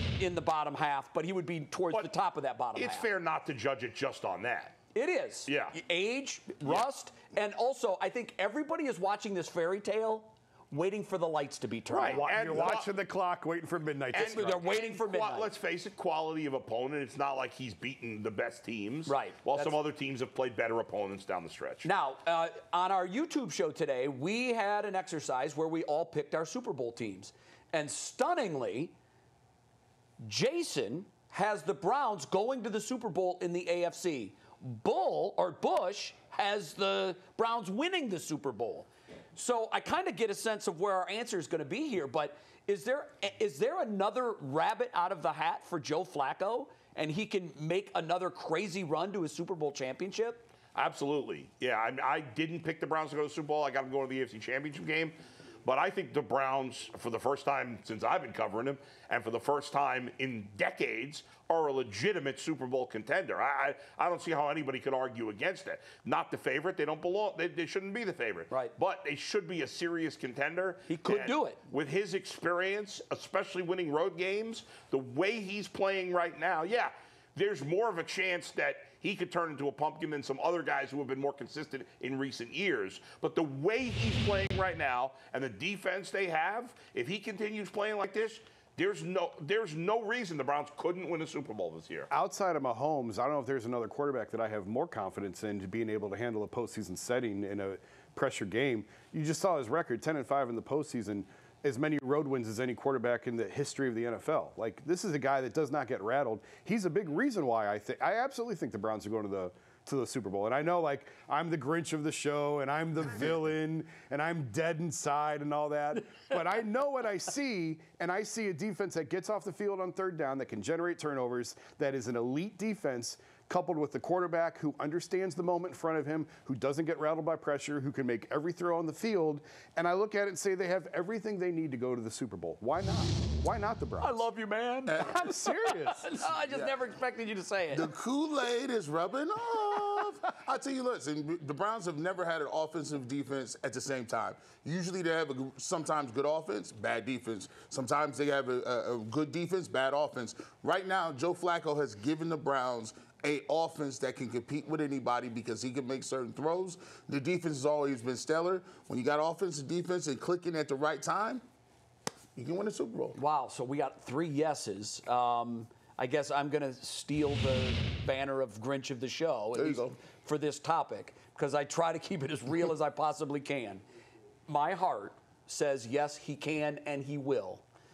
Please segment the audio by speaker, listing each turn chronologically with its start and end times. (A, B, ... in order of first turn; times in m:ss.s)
0:00.2-0:03.1 A
0:02.7-0:04.8 B
0:04.9-0:12.7 A
0:05.5-0:05.8 B
0:11.9-0:12.9 B
0:12.0-0:14.7 C
0:14.1-0:15.5 A
0:14.1-0:21.9 B
0:19.1-0:19.8 A
0:21.8-0:28.9 A
0:30.2-0:50.5 A
0:50.7-1:32.1 B
1:10.9-1:11.6 A
1:32.1-2:14.2 C
2:14.0-2:17.9 A
2:14.9-2:15.2 D
2:15.0-2:16.3 C
2:16.4-2:16.9 D
2:17.7-2:41.4 D
2:42.4-2:43.2 D
2:43.2-2:53.8 A
2:49.5-2:50.0 D
2:54.5-2:57.6 A